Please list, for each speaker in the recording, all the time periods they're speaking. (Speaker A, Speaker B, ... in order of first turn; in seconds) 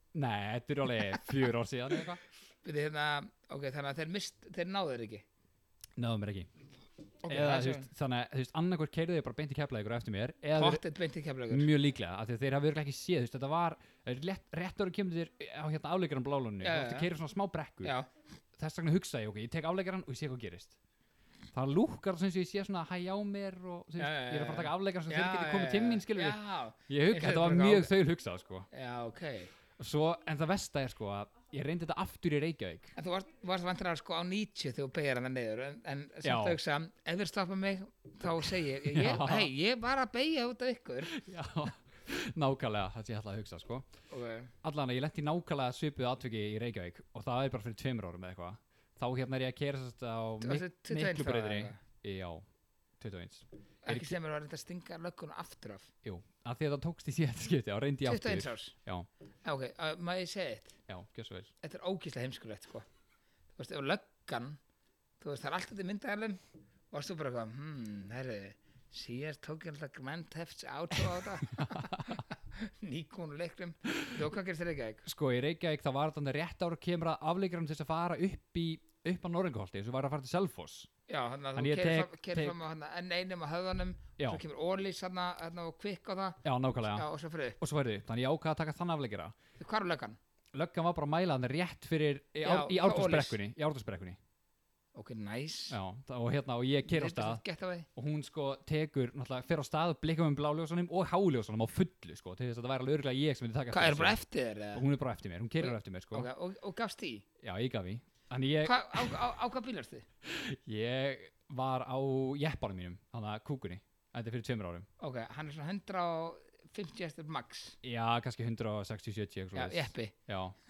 Speaker A: 0.1-2.2, 6.0-6.5, 7.2-10.8, 11.5-17.9, 18.6-20.8, 21.5-28.7, 29.8-33.0, 36.2-36.6, 38.9-39.5, 41.0-43.9, 44.6-52.5, 53.0-54.1, 56.0-59.1, 60.9-61.5, 71.6-72.1, 75.0-80.9, 81.5-82.6, 86.4-87.0, 87.6-89.3, 90.5-94.2, 95.7-97.4, 98.0-104.2, 104.7-106.3, 107.4-109.1, 110.2-114.9, 117.8-120.5
Speaker B: 2.6-5.2, 7.2-7.9, 10.5-11.7, 16.6-17.1, 17.8-18.1, 24.0-27.9, 28.7-29.5, 32.9-41.1, 44.1-44.5, 50.4-51.8, 53.8-55.9, 58.0-58.7, 59.4-60.8, 61.6-62.9, 63.5-64.6, 65.2-75.0, 81.1-87.6, 89.6-90.2, 92.4-93.4, 94.9-95.8, 96.8-97.9, 103.7-104.8, 105.6-107.2, 108.6-110.1, 115.0-117.8, 119.5-120.1